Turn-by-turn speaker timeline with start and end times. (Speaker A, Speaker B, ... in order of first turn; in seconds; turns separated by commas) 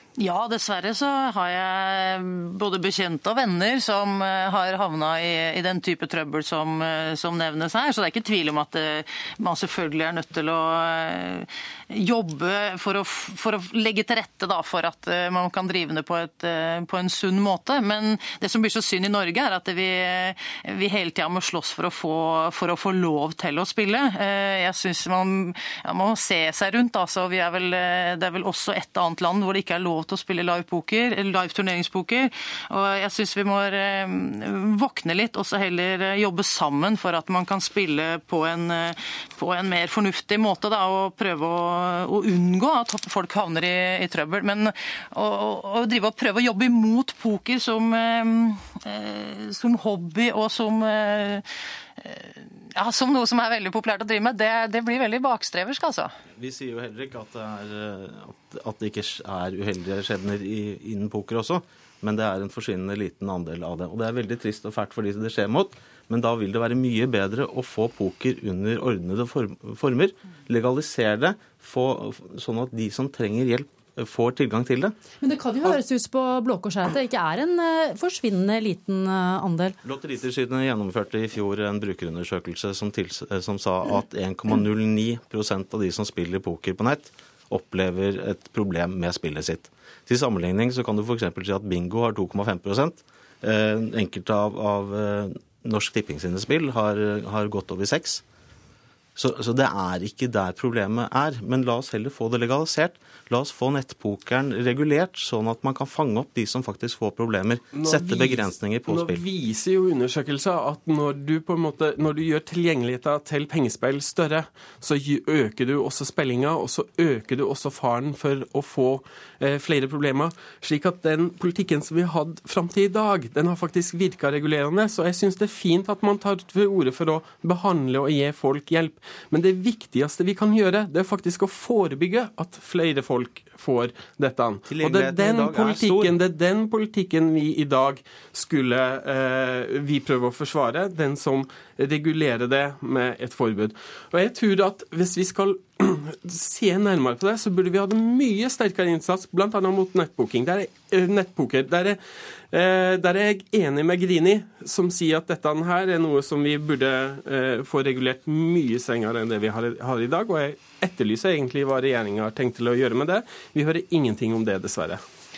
Speaker A: 0.2-51.5, Speaker A: 52.0-56.1, Speaker B: 56.4-75.0, Speaker C: 75.2-79.8, Speaker B: 79.8-98.2, Speaker B: 99.2-109.2, Speaker D: 107.7-152.0, Speaker B: 134.7-136.2, Speaker D: 152.5-165.0